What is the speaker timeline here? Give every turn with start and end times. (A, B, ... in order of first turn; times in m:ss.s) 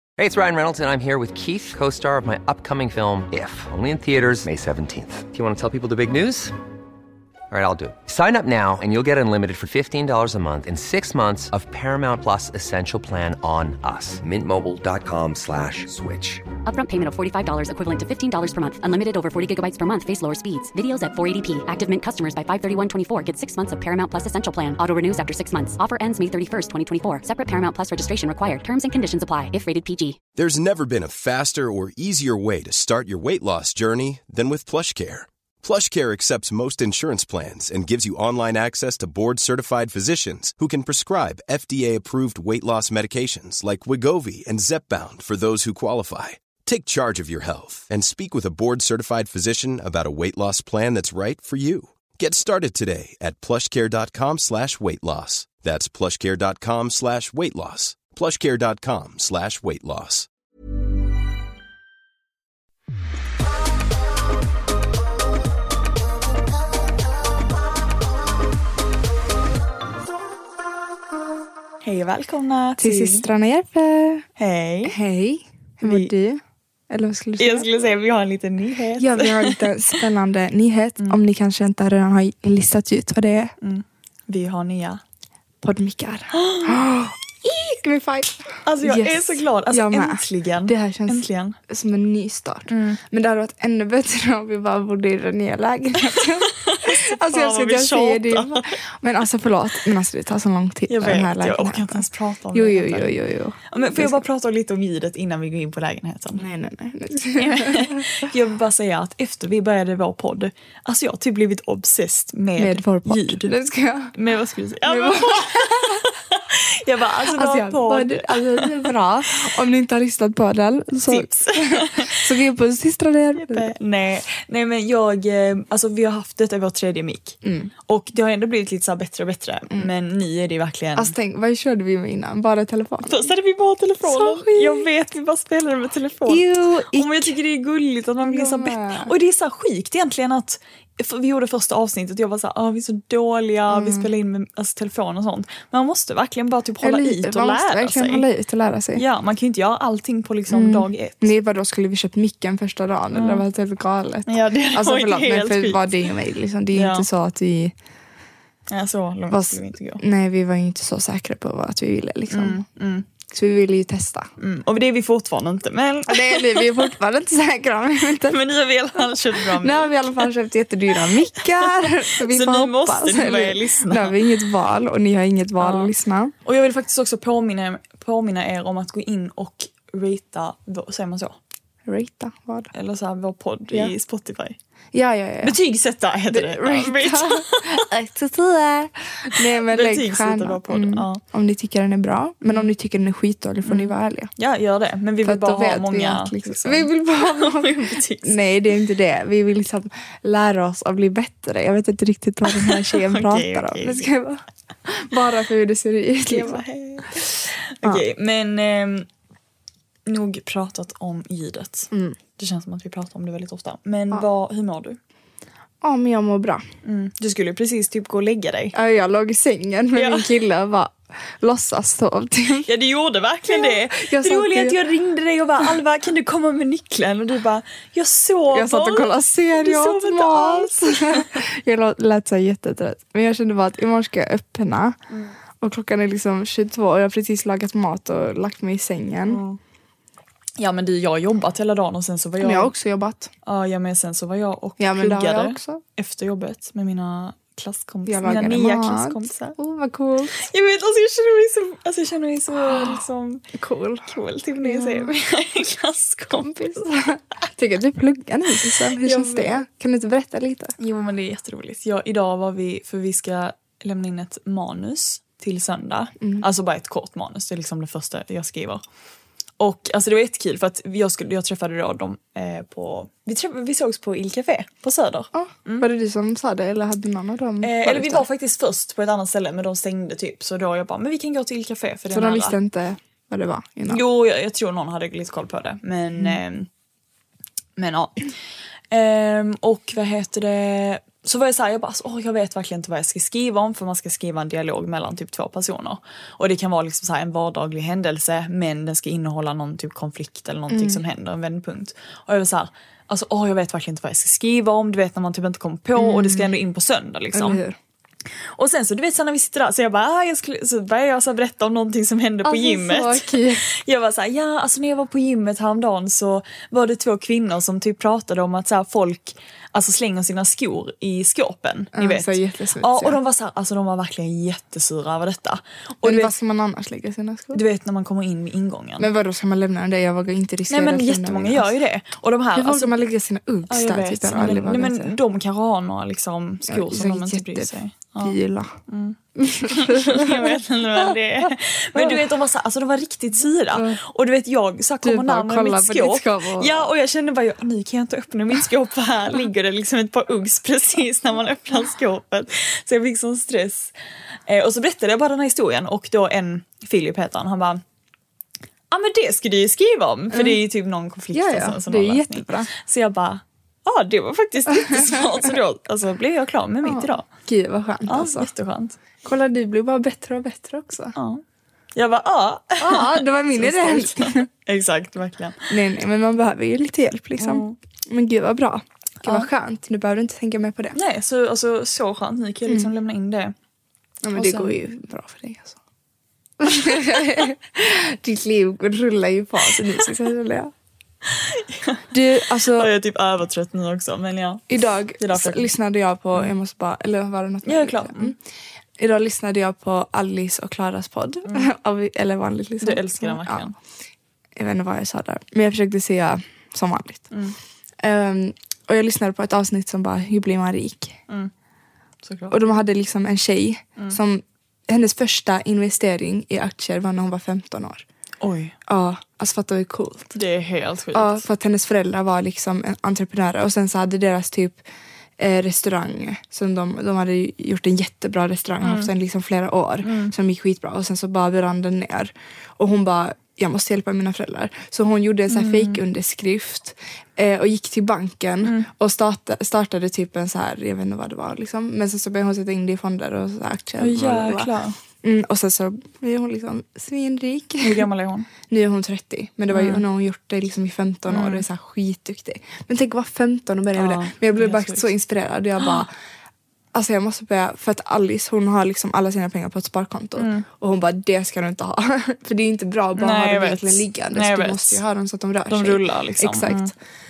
0:00.2-0:06.6 A
0:07.5-0:16.4 A
0:16.6-0:30.2 B
0:30.4-1:00.3 C
1:11.8-1:13.3 D
1:12.8-1:14.3 E
1:14.4-1:15.0 D
1:14.9-1:17.7 E
1:15.8-1:16.1 D
1:17.4-1:19.7 D
1:19.0-1:23.5 E
1:23.6-1:25.0 D
1:25.6-1:44.2 E
1:26.3-1:26.8 D
1:28.7-1:31.6 D
1:32.7-1:33.0 D
1:36.6-1:38.7 D
1:40.9-1:43.1 D
1:43.7-1:46.5 D
1:46.4-1:48.1 E
1:47.4-1:53.5 D
1:52.6-1:54.2 E
1:54.2-1:58.9 D
1:54.8-1:56.1 E
1:57.2-2:03.7 E
2:01.1-2:02.3 D
2:03.4-2:11.1 D
2:07.4-2:07.7 E
2:11.0-2:13.3 E
2:13.0-2:28.3 D
2:14.0-2:14.9 E
2:16.3-2:17.4 E
2:18.2-2:19.1 E
2:23.7-2:24.1 E
2:26.8-2:29.0 E
2:29.0-2:31.3 D
2:30.5-2:37.8 E
2:33.1-2:33.4 D
2:34.3-2:35.8 D
2:36.7-2:37.1 D
2:38.7-2:40.0 D
2:39.3-2:42.6 E
2:42.3-2:43.1 D
2:43.3-2:44.3 E
2:44.4-2:46.9 D
2:46.1-2:48.4 E
2:48.3-2:50.3 D
2:49.0-2:56.3 E
2:50.9-2:54.3 D
2:55.6-2:55.9 D
2:56.4-3:01.4 D
3:01.9-3:02.7 E
3:02.7-3:04.6 D
3:04.9-3:05.6 E
3:05.4-3:07.9 D
3:06.3-3:14.3 E
3:09.3-3:11.2 D
3:13.7-3:18.4 D
3:15.2-3:27.2 E
3:22.5-3:24.1 D
3:26.3-3:29.1 D
3:30.1-3:35.0 D
3:31.9-3:32.2 E
3:35.8-3:36.6 E
3:36.8-3:38.8 D
3:38.7-3:42.7 E
3:39.9-3:40.3 D
3:42.7-3:51.3 D
3:43.5-3:44.8 E
3:48.5-3:55.0 E
3:55.1-3:55.4 D
3:55.6-3:59.4 E
3:59.3-3:59.6 D
4:00.6-4:02.7 D
4:02.4-4:03.3 E
4:03.5-4:09.6 D
4:04.8-4:05.8 E
4:08.1-4:10.5 E
4:10.4-4:13.4 D
4:12.6-4:15.1 E
4:14.1-4:16.9 D
4:16.3-4:20.8 E
4:19.0-4:19.6 D
4:20.8-4:28.8 D
4:26.2-4:26.5 E
4:29.6-4:35.9 D
4:35.4-4:38.3 E
4:37.6-4:42.6 D
4:42.1-4:44.0 E
4:43.9-4:46.7 D
4:47.8-4:48.3 D
4:48.9-5:07.6 D
5:00.7-5:01.0 E
5:06.0-5:06.6 E
5:07.3-5:07.8 E
5:08.6-5:26.3 D
5:12.4-5:13.6 E
5:22.0-5:23.2 E
5:26.0-5:27.6 E
5:27.5-5:29.1 D
5:29.0-5:31.7 E
5:30.7-5:32.9 D
5:32.6-5:35.2 E
5:33.7-5:38.4 D
5:36.7-5:38.7 E
5:38.9-5:53.9 D
5:39.4-5:42.2 E
5:43.7-5:44.0 E
5:45.0-5:46.9 E
5:54.5-5:57.8 D
5:58.9-6:07.2 D
6:00.3-6:00.6 E
6:01.3-6:02.7 E
6:04.8-6:05.4 E
6:06.8-6:08.5 E
6:08.1-6:09.0 D
6:09.2-6:11.2 E
6:11.2-6:11.4 D
6:12.0-6:15.7 D
6:12.8-6:14.5 E
6:15.7-6:21.0 E
6:17.4-6:17.8 D
6:21.0-6:23.5 D
6:24.2-6:25.8 E
6:24.3-6:24.8 D
6:26.6-6:30.7 E
6:31.5-6:32.0 D
6:32.1-6:32.9 E
6:32.6-6:35.7 D
6:34.7-6:38.4 E
6:37.7-6:38.3 D
6:39.0-6:43.6 E
6:42.8-6:43.8 D
6:44.6-6:47.3 E
6:47.3-6:47.6 D
6:48.0-6:51.2 E
6:52.2-6:52.5 D
6:52.5-6:58.0 E
6:58.4-6:58.8 D
6:58.9-7:00.4 E
7:00.4-7:01.4 D
7:01.1-7:04.8 E
7:05.4-7:28.1 E
7:08.8-7:09.1 D
7:10.0-7:10.3 D
7:15.5-7:16.0 D
7:18.6-7:18.9 D
7:24.0-7:25.0 D
7:27.8-7:28.5 D
7:28.7-7:36.1 E
7:29.7-7:30.0 D
7:31.3-7:31.6 D
7:34.0-7:35.1 D
7:36.9-7:46.9 E
7:40.4-7:40.7 D
7:43.2-7:45.0 D
7:45.7-7:46.9 D